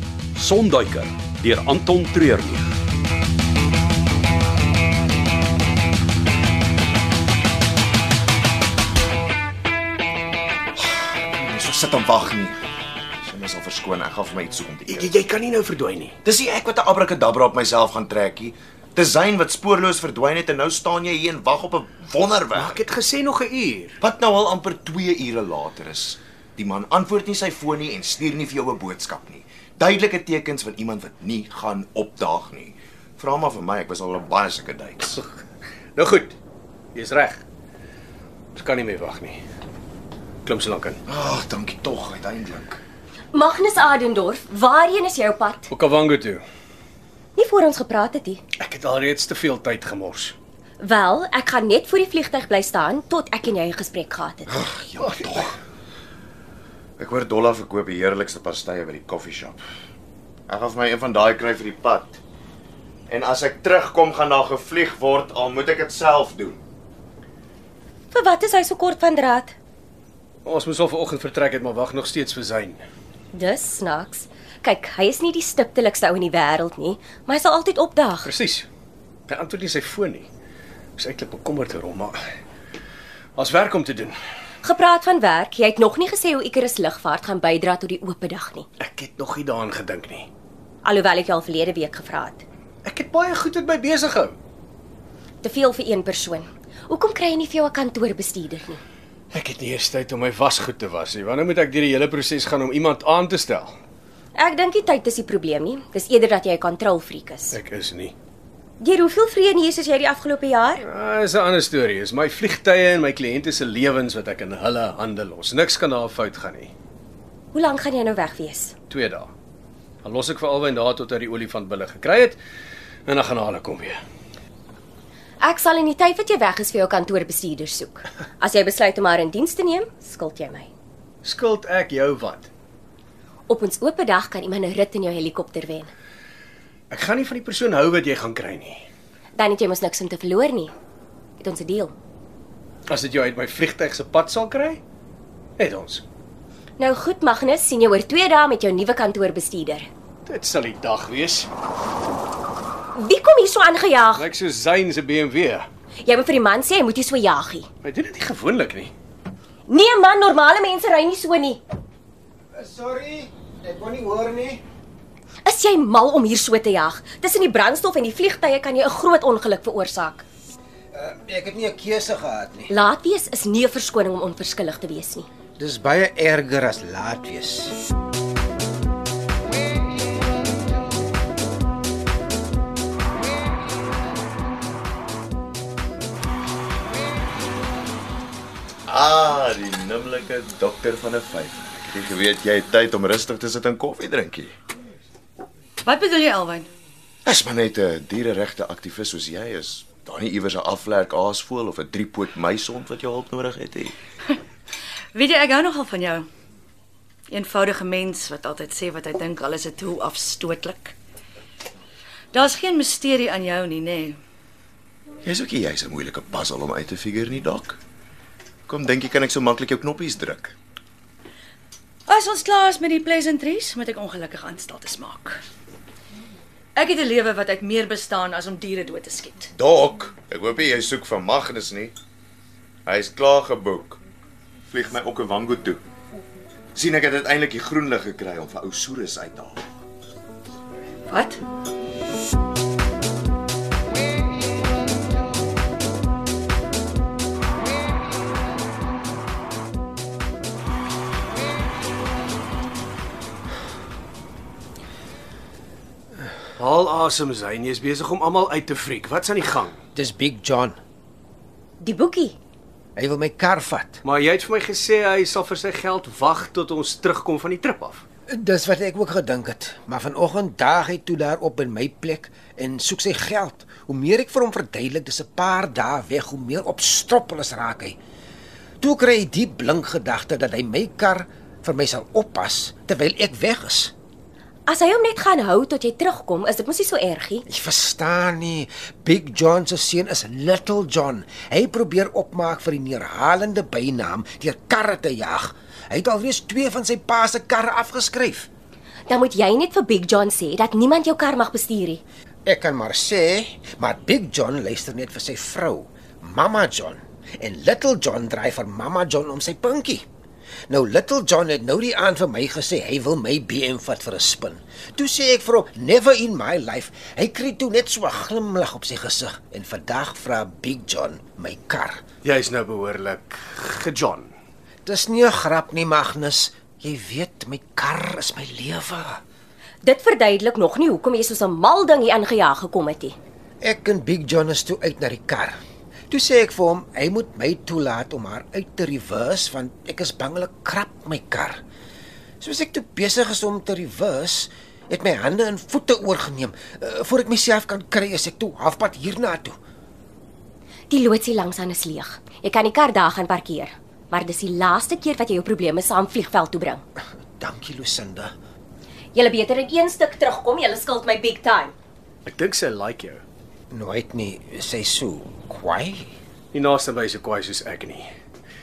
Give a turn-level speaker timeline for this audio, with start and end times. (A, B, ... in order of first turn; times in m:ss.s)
0:00.4-0:02.6 A
0:10.8-0:12.6 B
0:13.2-0:15.1 B
0:14.8-0:16.2 C
0:16.2-0:22.8 B
0:22.5-0:24.0 C
0:24.0-0:35.2 B
0:36.0-0:36.3 C
0:37.0-0:37.4 C
0:38.6-0:39.4 C
0:40.5-0:41.0 C
0:41.1-0:42.8 B
0:43.3-0:45.7 D
0:45.7-0:46.4 C
0:47.4-0:48.4 D
0:48.6-0:50.4 C
0:50.8-0:54.5 D
0:54.5-0:55.5 B
0:55.0-0:55.4 C
0:57.0-0:59.6 B
1:00.5-1:02.2 B
1:03.1-1:06.6 B
1:08.1-1:09.6 D
1:10.5-1:12.8 C
1:13.3-1:18.3 D
1:18.2-1:18.7 C
1:19.3-1:20.3 C
1:21.0-1:22.2 C
1:23.4-1:24.2 C
1:24.6-1:28.7 D
1:28.8-1:30.3 C
1:30.8-1:32.4 D
1:32.8-1:34.4 C
1:35.4-1:38.8 D
1:39.3-1:43.8 C
1:44.4-1:47.6 D
1:47.5-1:48.1 C
1:48.8-1:50.8 D
1:50.8-1:56.7 C
1:57.5-1:58.7 D
1:58.9-1:59.3 C
2:00.0-2:02.4 C
2:03.1-2:04.0 C
2:05.4-2:10.7 D
2:11.2-2:12.5 C
2:13.5-2:15.9 D
2:16.9-2:18.8 C
2:19.4-2:20.7 D
2:21.4-2:21.9 D
2:22.9-2:24.8 C
2:25.6-2:26.0 C
2:26.8-2:29.9 D
2:30.3-2:31.5 C
2:33.0-2:34.3 D
2:34.2-2:35.7 C
2:36.1-2:37.7 D
2:37.8-2:38.9 C
2:39.7-2:41.6 D
2:42.6-2:44.6 E
2:45.5-2:50.2 D
2:50.9-2:52.7 E
2:52.7-2:55.3 D
2:55.6-2:57.8 E
3:08.9-3:14.5 B
3:15.8-3:16.7 F
3:17.2-3:24.0 B
3:25.1-3:26.3 F
3:27.3-3:31.0 F
3:32.3-3:34.2 F
3:35.2-3:37.8 B
3:38.7-3:40.6 B
3:42.1-3:45.4 F
3:46.8-3:49.5 F
3:49.6-3:52.0 B
3:52.9-3:54.0 B
3:54.7-3:55.8 B
3:56.8-3:59.6 B
4:01.1-4:01.4 F
4:16.6-4:19.8 C
4:20.0-4:20.8 E
4:21.8-4:22.4 D
4:23.0-4:24.0 E
4:24.0-4:28.0 C
4:28.3-4:38.0 E
4:38.8-4:43.9 E
4:44.7-4:47.4 D
4:47.5-4:58.5 E
4:59.1-5:02.0 D
5:02.5-5:10.0 E
5:10.7-5:22.0 E
5:22.2-5:24.3 C
5:24.9-5:29.2 E
5:29.8-5:33.2 D
5:33.6-5:35.6 E
5:36.1-5:41.6 E
5:42.4-5:49.6 E
5:50.9-5:56.8 D
5:57.4-5:58.3 E
5:59.2-6:01.7 D
6:02.3-6:03.2 C
6:03.7-6:06.1 E
6:06.5-6:08.1 C